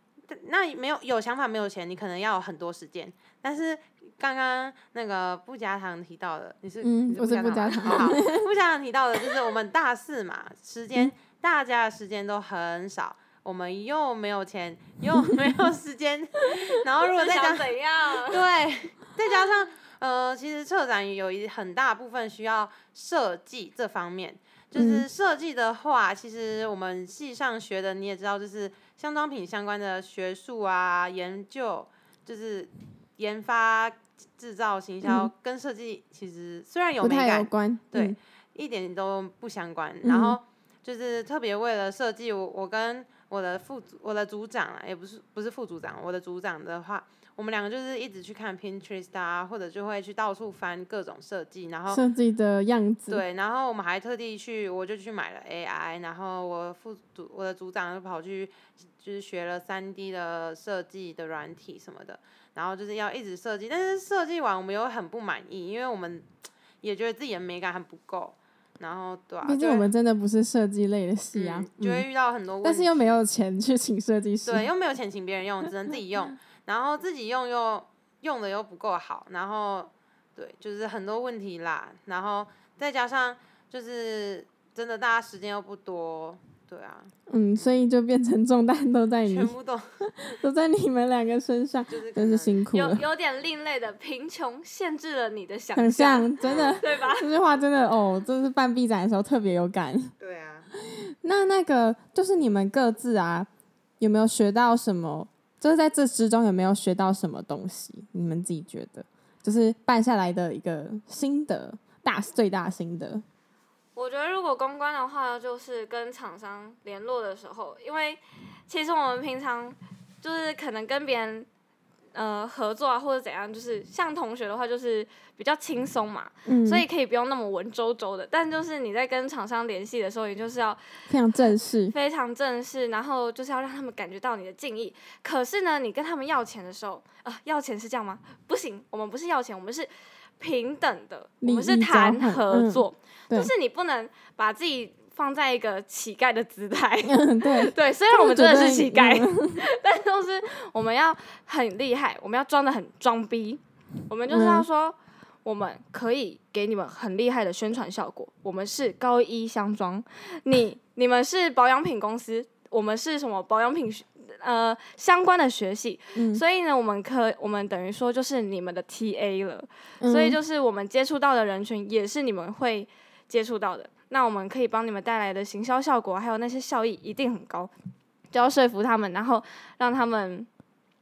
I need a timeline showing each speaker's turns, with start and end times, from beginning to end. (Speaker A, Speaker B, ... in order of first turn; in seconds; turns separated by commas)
Speaker A: 0.3-52.0, Speaker B: 6.8-8.4, Speaker C: 7.8-8.1, Speaker C: 17.0-18.4, Speaker B: 24.7-25.0, Speaker B: 35.0-35.3, Speaker B: 37.0-38.2, Speaker B: 40.0-40.4, Speaker B: 51.9-53.2, Speaker A: 53.1-66.3, Speaker A: 66.8-69.9, Speaker B: 69.4-72.0, Speaker A: 71.3-73.2, Speaker B: 72.6-74.7, Speaker A: 74.4-87.8, Speaker B: 87.3-93.0, Speaker A: 89.2-90.0, Speaker A: 91.9-92.6, Speaker C: 92.7-97.3, Speaker B: 95.7-100.1, Speaker A: 100.2-100.7, Speaker B: 100.8-103.5, Speaker B: 104.0-113.2, Speaker C: 113.9-121.5, Speaker C: 122.1-131.1, Speaker B: 126.5-126.8, Speaker B: 131.1-131.9, Speaker C: 131.9-177.7, Speaker B: 141.4-143.5, Speaker B: 147.0-149.7, Speaker B: 154.3-154.7, Speaker B: 166.1-166.4, Speaker B: 170.0-170.4, Speaker C: 178.3-180.5